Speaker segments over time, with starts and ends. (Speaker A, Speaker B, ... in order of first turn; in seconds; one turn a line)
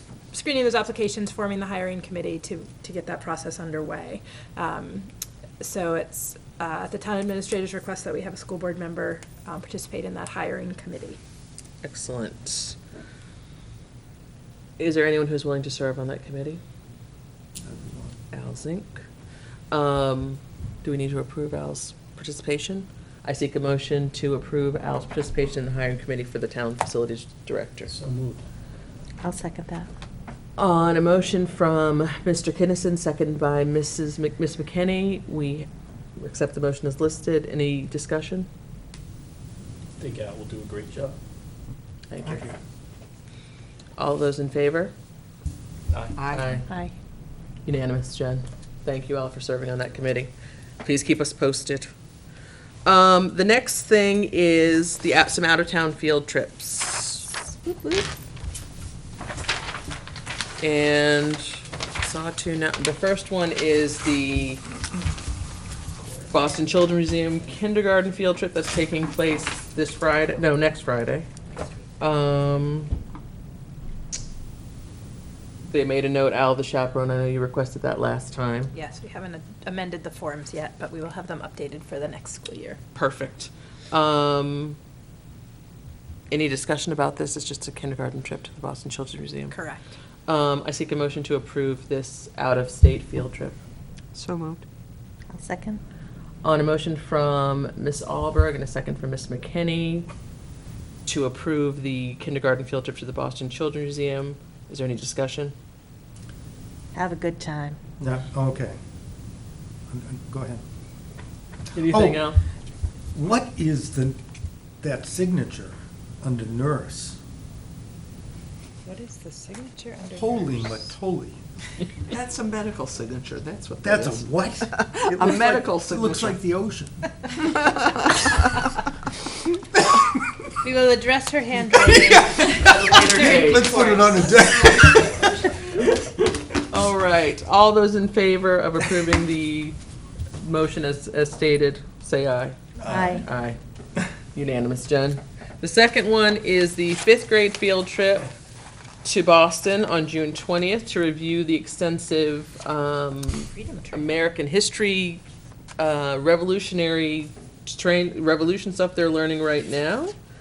Speaker A: 0.3-11.2
Speaker B: 11.8-12.8
Speaker B: 14.8-16.6
Speaker C: 17.6-18.2
Speaker B: 18.3-19.0
Speaker B: 19.7-27.9
Speaker D: 27.9-28.4
Speaker E: 29.2-29.9
Speaker B: 30.6-38.5
Speaker D: 40.0-41.1
Speaker B: 42.1-42.5
Speaker B: 44.0-44.9
Speaker D: 45.9-46.2
Speaker F: 46.2-46.5
Speaker B: 46.3-46.7
Speaker B: 47.7-50.3
Speaker B: 50.8-51.9
Speaker B: 52.9-58.1
Speaker B: 60.6-64.6
Speaker B: 66.3-71.3
Speaker B: 72.0-72.9
Speaker B: 75.7-78.7
Speaker A: 78.7-82.8
Speaker B: 83.0-84.8
Speaker B: 86.3-89.6
Speaker A: 89.5-89.9
Speaker B: 90.3-93.6
Speaker F: 94.2-94.6
Speaker E: 95.3-95.8
Speaker B: 96.4-100.1
Speaker B: 101.1-105.5
Speaker E: 106.9-107.8
Speaker C: 108.0-108.8
Speaker C: 109.9-110.6
Speaker B: 111.7-112.4
Speaker C: 111.9-112.3
Speaker C: 113.1-114.2
Speaker C: 114.8-117.2
Speaker A: 118.8-120.8
Speaker C: 120.2-121.5
Speaker F: 122.1-126.4
Speaker C: 123.8-127.0
Speaker A: 130.6-135.0
Speaker C: 131.8-135.5
Speaker B: 132.1-133.9
Speaker B: 136.7-139.8
Speaker B: 140.4-143.6
Speaker C: 142.8-143.2
Speaker E: 142.9-143.2
Speaker B: 144.3-148.3
Speaker B: 149.0-155.2
Speaker E: 153.5-154.1
Speaker B: 155.8-160.1